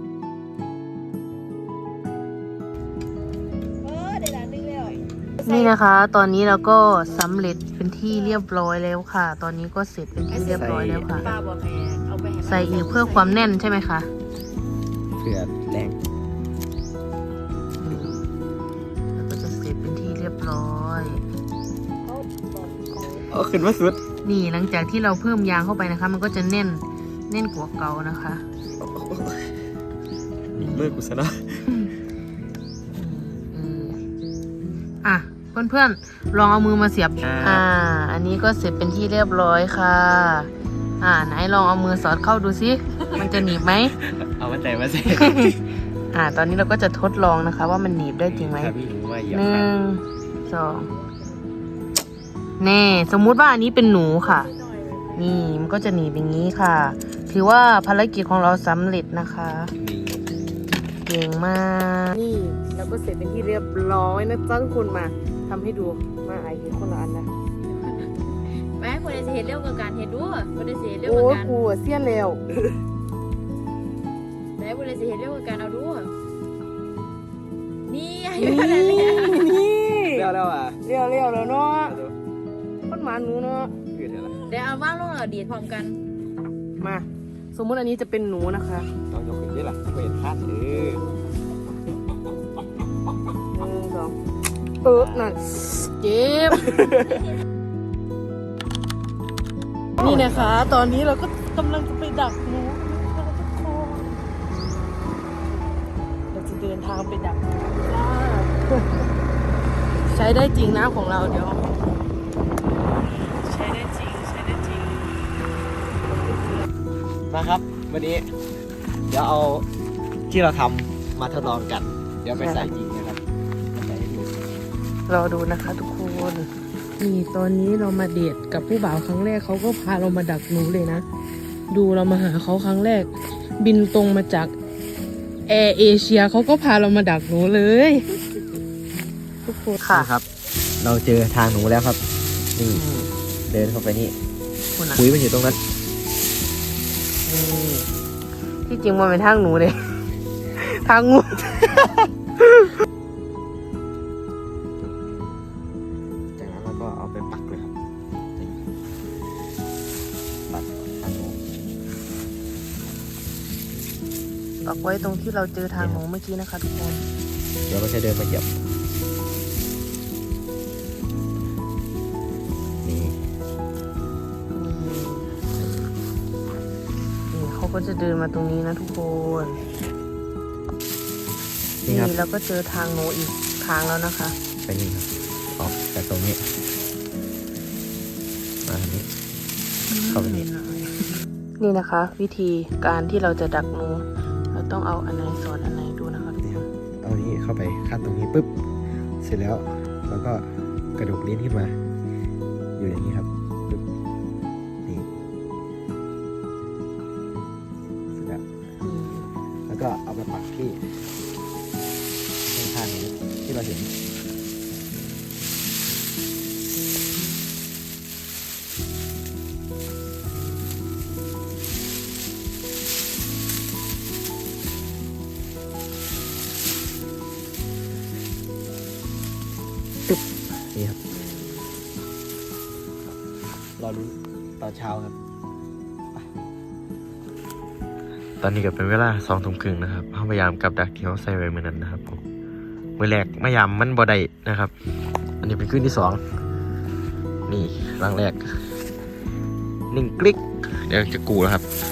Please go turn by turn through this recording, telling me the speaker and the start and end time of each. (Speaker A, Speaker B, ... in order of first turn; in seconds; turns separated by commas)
Speaker A: 3.8-5.7, Speaker B: 5.4-11.3, Speaker A: 8.1-8.4, Speaker A: 10.3-13.5, Speaker C: 10.4-11.3, Speaker B: 12.4-14.1, Speaker C: 15.2-16.0, Speaker B: 17.8-18.2, Speaker B: 19.1-21.2, Speaker C: 23.3-24.0, Speaker B: 24.2-28.4, Speaker C: 28.8-29.5, Speaker C: 30.5-31.6, Speaker B: 30.6-31.0, Speaker B: 33.0-34.0, Speaker B: 35.0-40.5, Speaker C: 37.2-37.7, Speaker B: 41.0-44.0, Speaker C: 43.1-45.6, Speaker B: 45.1-45.5, Speaker B: 46.1-48.8, Speaker C: 48.3-49.7, Speaker B: 49.3-50.9, Speaker B: 52.6-54.5, Speaker B: 55.1-59.7, Speaker C: 59.8-60.9, Speaker B: 61.0-67.3, Speaker A: 67.7-71.5, Speaker B: 71.0-72.5, Speaker A: 74.6-76.1, Speaker A: 77.9-79.6, Speaker B: 78.4-80.3, Speaker C: 80.1-80.8, Speaker B: 80.8-82.0, Speaker C: 81.8-82.2, Speaker B: 82.9-83.8, Speaker C: 83.9-84.5, Speaker A: 84.5-86.0, Speaker B: 86.8-88.9, Speaker C: 89.1-91.0, Speaker B: 93.5-94.2, Speaker B: 94.8-96.8, Speaker C: 94.9-95.3, Speaker C: 96.7-97.2, Speaker C: 100.0-100.7, Speaker B: 100.0-104.2, Speaker B: 106.3-108.7, Speaker B: 110.1-111.8, Speaker B: 113.3-115.0, Speaker C: 117.3-118.3, Speaker C: 119.1-119.7, Speaker C: 120.3-123.2, Speaker B: 122.3-122.7, Speaker C: 123.7-124.5, Speaker B: 125.1-131.1, Speaker B: 131.7-134.5, Speaker B: 135.5-138.2, Speaker B: 139.5-140.1, Speaker C: 139.9-140.2, Speaker C: 140.8-142.0, Speaker C: 142.6-142.8, Speaker B: 142.7-143.1, Speaker C: 143.5-144.1, Speaker B: 144.8-145.1, Speaker C: 144.9-145.6, Speaker B: 147.3-147.9, Speaker B: 148.7-151.9, Speaker C: 156.4-157.7, Speaker C: 160.5-161.4, Speaker B: 164.7-167.1, Speaker C: 165.7-166.0, Speaker C: 167.7-168.5, Speaker C: 172.8-173.2, Speaker B: 174.5-175.3, Speaker C: 175.6-175.9, Speaker B: 177.3-179.6, Speaker C: 181.8-182.2, Speaker B: 181.9-184.3, Speaker C: 184.7-185.1, Speaker C: 185.6-186.4, Speaker C: 188.7-189.1, Speaker B: 189.9-196.7, Speaker C: 190.1-190.5, Speaker C: 196.4-198.5, Speaker C: 199.2-200.5, Speaker C: 201.0-201.7, Speaker C: 202.8-203.8, Speaker C: 208.1-208.4, Speaker B: 208.8-209.3, Speaker C: 209.7-210.8, Speaker C: 212.5-213.9, Speaker B: 231.1-231.7, Speaker C: 233.8-235.2, Speaker C: 238.4-242.2, Speaker C: 243.0-244.7, Speaker C: 245.4-246.2, Speaker C: 247.5-248.6, Speaker C: 249.9-251.7